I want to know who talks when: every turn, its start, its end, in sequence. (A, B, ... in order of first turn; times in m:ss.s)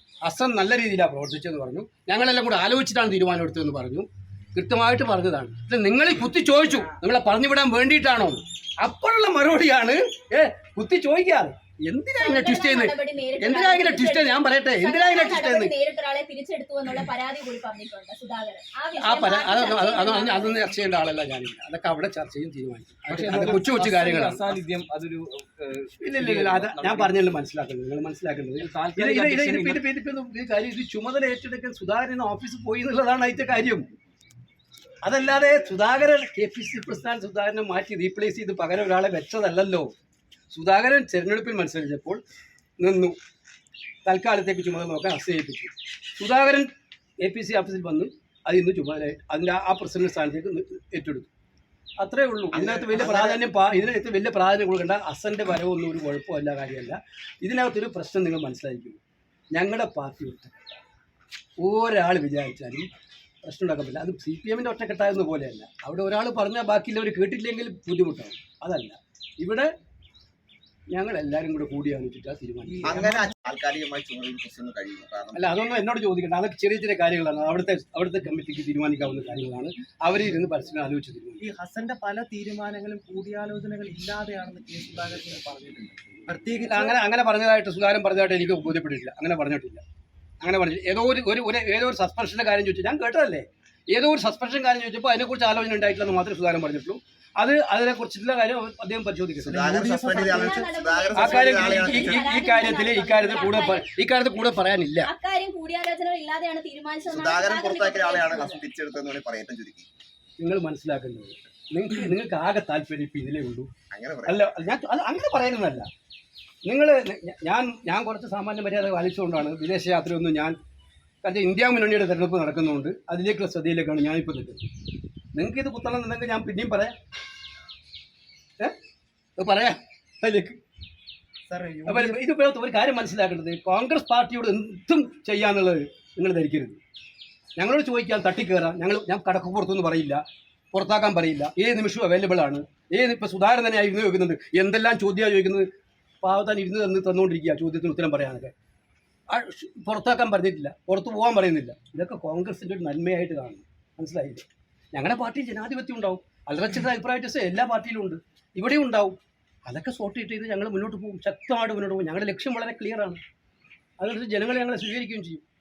0:00.2-0:15.8 A
0:12.2-0:20.7 B
0:19.0-0:24.6 A
0:23.1-0:27.3 C
0:26.0-0:33.8 A
0:28.6-0:29.9 C
0:35.0-0:39.9 A
0:40.5-0:42.2 A
0:42.8-0:43.2 A
0:44.0-0:51.3 A
0:52.0-0:59.0 A
0:52.5-0:53.4 D
0:59.5-1:00.6 A
1:01.6-1:02.9 A
1:03.4-1:09.7 A
1:10.9-1:13.2 A
1:12.7-1:13.0 E
1:12.8-1:15.5 D
1:15.4-1:21.4 A
1:21.4-1:27.0 E
1:26.6-1:29.8 A
1:30.4-1:39.7 A
1:39.4-1:42.3 D
1:39.6-1:40.7 E
1:40.1-1:43.8 B
1:41.1-1:45.1 A
1:45.0-1:48.6 B
1:47.1-1:49.9 D
1:50.4-1:53.7 A
1:53.9-1:54.5 D
1:54.2-1:55.9 A
1:56.6-2:00.6 A
2:01.2-2:04.6 A
2:05.3-2:07.0 A
2:09.4-2:10.6 A
2:11.5-2:12.2 E
2:11.9-2:16.8 A
2:17.6-2:25.7 A
2:26.2-2:28.5 A
2:29.3-2:43.2 A
2:44.0-2:45.4 A